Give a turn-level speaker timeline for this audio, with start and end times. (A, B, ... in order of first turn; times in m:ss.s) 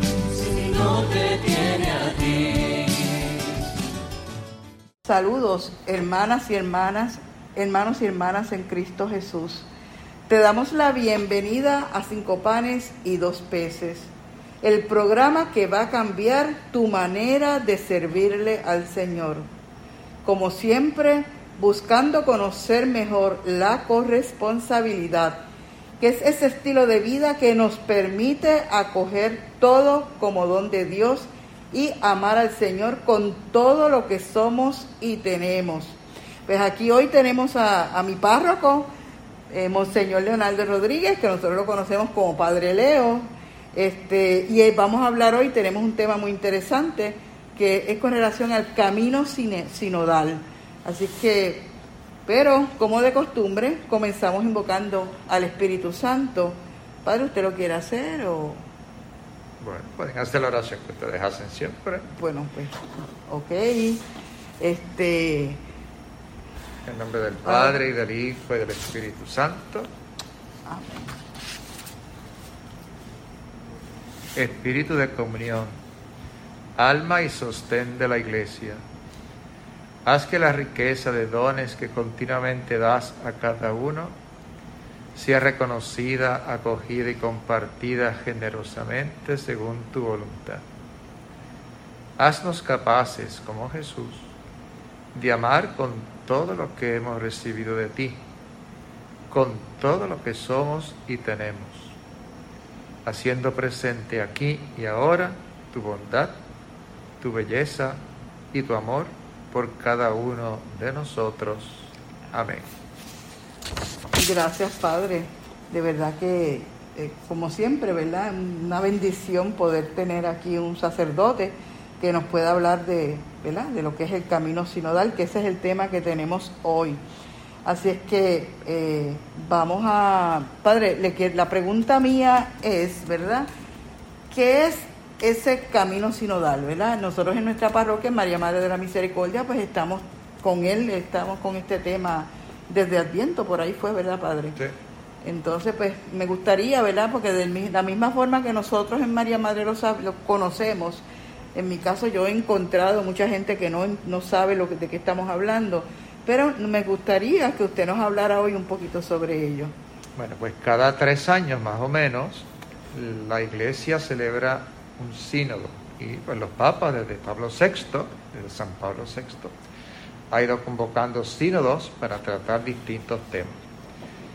0:00.2-0:03.5 A
0:05.0-0:09.7 B
0:10.3-0:19.4 B
0:20.2-0:25.4 B
0:26.0-0:38.9 B
0:39.5-0:51.7 B
0:52.2-0:58.6 B
0:59.6-1:02.1 C
1:02.1-1:04.0 B
1:04.6-1:05.6 B
1:06.8-1:09.9 C
1:07.4-1:07.8 B
1:10.6-1:11.2 B
1:14.3-1:15.7 C
1:16.8-1:18.8 C
1:20.0-1:24.1 C
1:25.1-1:30.6 C
1:32.2-1:34.3 C
1:35.1-1:38.2 C
1:39.3-1:42.0 C
1:43.0-1:46.3 C
1:47.2-1:48.0 C
1:48.5-1:52.6 C
1:54.2-2:07.0 B
2:07.6-2:13.5 B
2:14.3-2:24.6 B
2:25.2-2:39.7 B
2:40.2-2:49.5 C
2:50.3-2:53.6 C